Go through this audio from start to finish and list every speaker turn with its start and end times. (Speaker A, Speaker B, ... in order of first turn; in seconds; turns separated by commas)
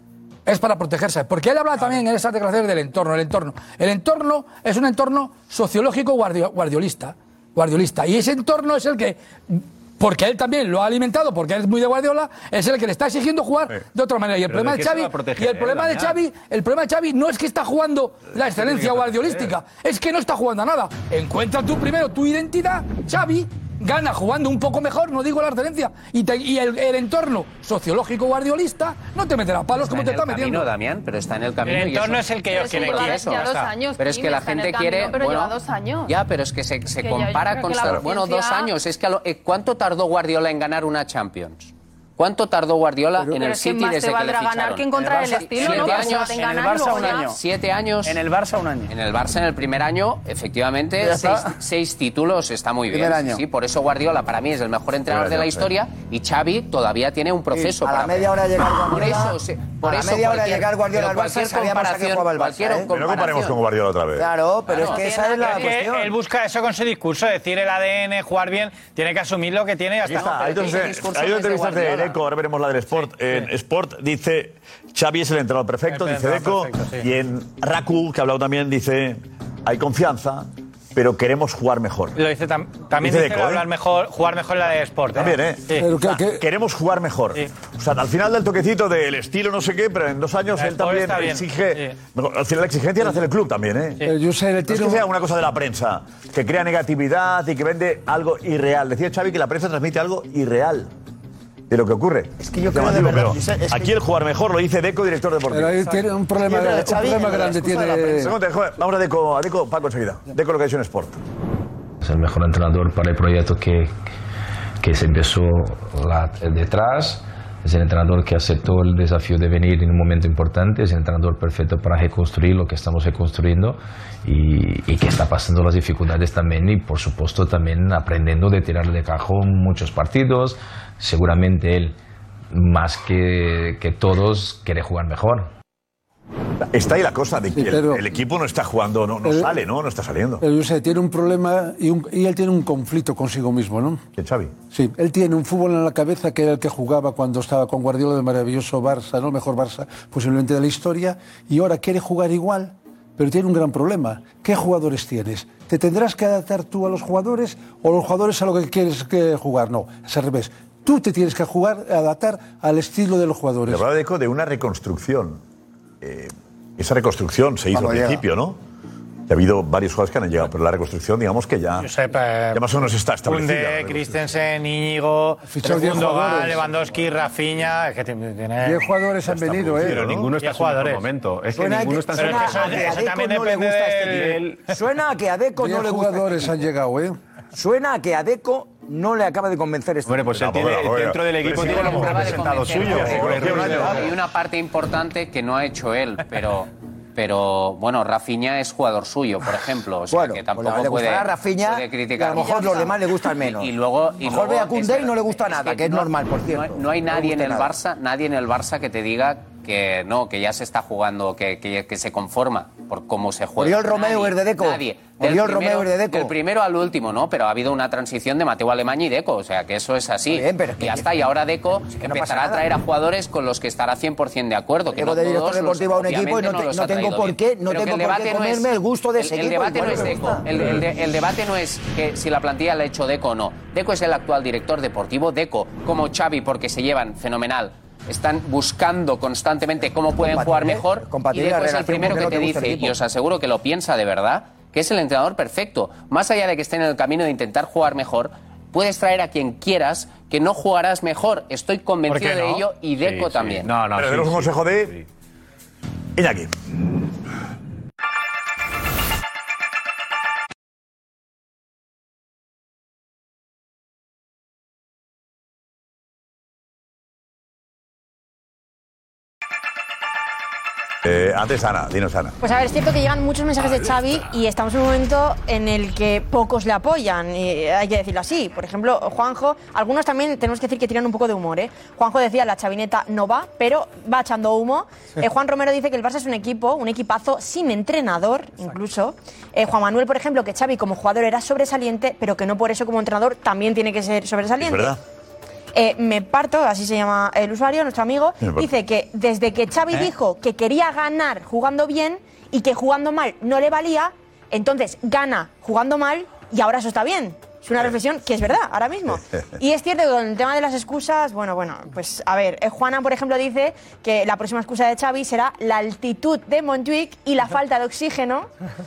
Speaker A: 0.5-30.7, Speaker B: 14.5-16.2, Speaker B: 18.4-19.5, Speaker C: 29.8-35.6, Speaker D: 31.6-33.7, Speaker E: 32.5-36.1, Speaker C: 36.1-48.2, Speaker E: 37.0-38.7, Speaker E: 43.2-47.3, Speaker F: 45.0-47.4, Speaker F: 48.1-48.9, Speaker C: 48.9-63.6, Speaker F: 51.0-51.5, Speaker F: 53.0-53.4, Speaker G: 55.1-55.7, Speaker H: 57.5-62.9, Speaker G: 62.9-64.3, Speaker H: 64.2-66.1, Speaker C: 64.7-65.5, Speaker E: 64.9-65.5, Speaker D: 65.4-70.4, Speaker G: 70.0-82.2, Speaker C: 70.1-72.2, Speaker D: 75.9-77.1, Speaker D: 82.2-85.9, Speaker G: 83.0-83.7, Speaker G: 85.1-94.0, Speaker I: 85.8-86.5, Speaker D: 90.6-91.9, Speaker I: 94.0-95.1, Speaker G: 94.7-100.9, Speaker G: 101.7-105.9, Speaker F: 102.4-104.0, Speaker I: 105.5-108.4, Speaker F: 106.4-108.3, Speaker G: 108.2-111.2, Speaker J: 112.0-113.9, Speaker J: 114.8-132.0, Speaker J: 132.5-135.5, Speaker G: 136.7-140.4, Speaker I: 137.5-138.1, Speaker I: 139.2-139.6, Speaker I: 140.4-144.0, Speaker G: 144.2-144.6, Speaker I: 144.7-163.9, Speaker G: 163.7-165.4, Speaker G: 166.0-168.6, Speaker G: 169.3-171.9, Speaker D: 171.8-172.6, Speaker G: 172.5-174.3, Speaker D: 173.2-178.9, Speaker I: 175.4-176.7, Speaker I: 178.6-180.1, Speaker G: 179.3-180.3, Speaker B: 180.1-183.0, Speaker D: 180.4-181.1, Speaker H: 181.5-186.7, Speaker D: 182.2-184.4, Speaker B: 184.1-184.6, Speaker I: 185.6-187.2, Speaker H: 187.5-190.3, Speaker B: 190.1-194.1, Speaker G: 190.3-194.2, Speaker C: 191.6-253.8, Speaker H: 200.1-207.7, Speaker E: 202.4-202.8, Speaker H: 213.6-216.3, Speaker H: 220.3-221.2, Speaker H: 221.9-222.7, Speaker H: 224.9-230.8, Speaker H: 240.2-243.0, Speaker D: 252.1-252.6, Speaker B: 253.0-255.0, Speaker G: 253.9-254.9, Speaker G: 256.2-256.5, Speaker G: 271.0-272.4, Speaker K: 272.4-295.0, Speaker G: 294.6-295.0, Speaker K: 295.7-318.5, Speaker G: 298.4-298.7